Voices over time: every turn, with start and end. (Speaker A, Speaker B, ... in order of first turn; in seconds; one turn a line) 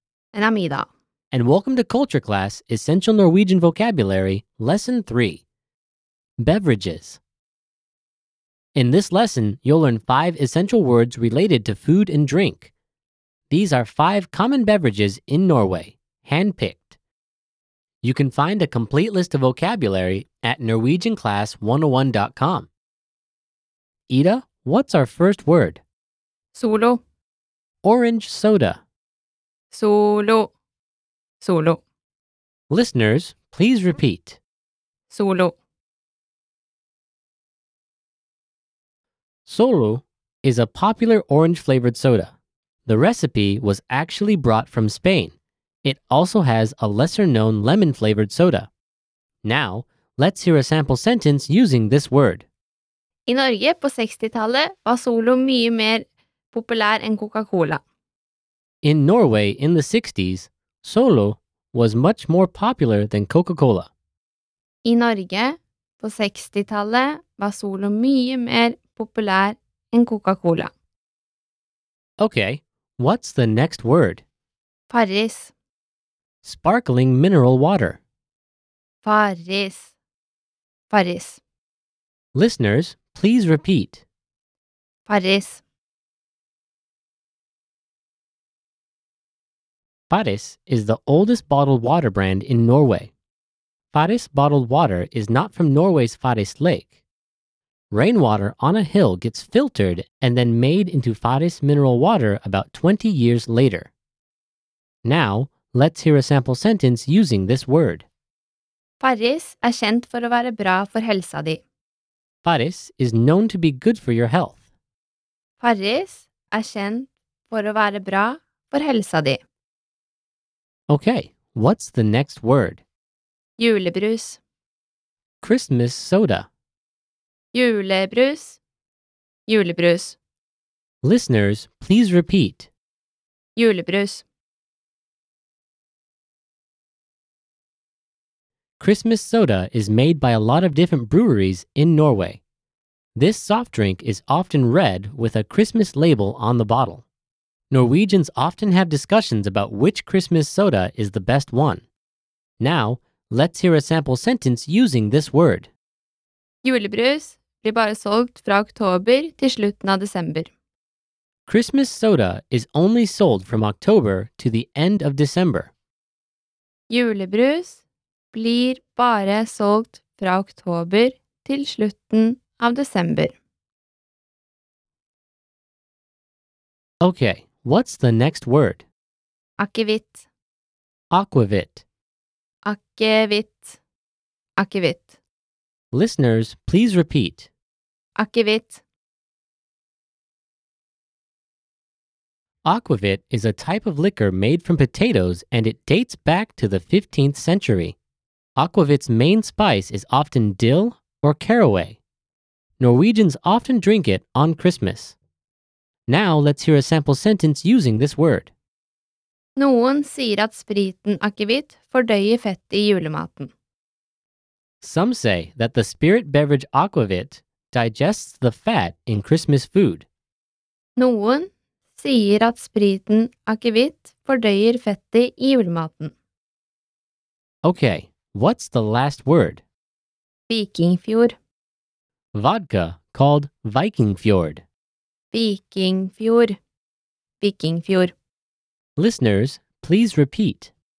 Speaker A: 0.3-0.9
Speaker B: 1.3-5.4
Speaker B: 6.4-7.2
Speaker B: 8.7-12.7
Speaker B: 13.5-17.0
Speaker B: 18.0-22.7
Speaker B: 24.1-25.8
Speaker A: 26.5-27.0
Speaker B: 27.8-28.8
Speaker A: 29.7-30.5
Speaker A: 31.4-31.8
Speaker B: 32.7-34.4
Speaker A: 35.1-35.5
Speaker B: 39.5-42.3
Speaker B: 42.9-48.7
Speaker B: 49.4-52.5
Speaker A: 53.2-57.8
Speaker B: 58.8-63.9
Speaker A: 64.8-70.7
Speaker B: 72.2-74.2
Speaker A: 74.9-75.5
Speaker B: 76.4-78.0
Speaker A: 79.0-79.9
Speaker A: 80.9-81.4
Speaker B: 82.3-84.0
Speaker A: 85.1-85.6
Speaker B: 90.1-93.1
Speaker B: 93.9-96.9
Speaker B: 97.9-103.9
Speaker B: 105.0-108.1
Speaker A: 109.0-111.6
Speaker B: 112.4-114.6
Speaker A: 115.6-119.4
Speaker B: 120.9-122.8
Speaker A: 123.6-124.4
Speaker B: 125.4-126.5
Speaker A: 127.5-128.6
Speaker A: 129.5-130.2
Speaker B: 131.0-132.7
Speaker A: 133.6-134.2
Speaker B: 138.8-142.4
Speaker B: 143.1-147.1
Speaker B: 147.7-151.8
Speaker B: 152.6-155.7
Speaker A: 156.6-160.5
Speaker B: 161.5-165.7
Speaker A: 166.9-167.8
Speaker A: 168.3-173.3
Speaker B: 177.0-178.8
Speaker A: 179.6-180.2
Speaker B: 181.1-181.8
Speaker A: 182.6-183.8
Speaker A: 184.6-185.1
Speaker B: 185.9-187.5
Speaker A: 188.2-188.8
Speaker B: 192.6-197.9
Speaker B: 198.6-202.0
Speaker B: 202.8-205.2
Speaker B: 206.1-208.5
Speaker A: 209.6-213.5
Speaker B: 214.8-220.1
Speaker A: 220.9-226.1
Speaker B: 227.6-229.6
Speaker A: 230.5-231.4
Speaker B: 232.3-234.6
Speaker A: 235.3-236.6
Speaker A: 237.4-238.1
Speaker B: 239.0-240.7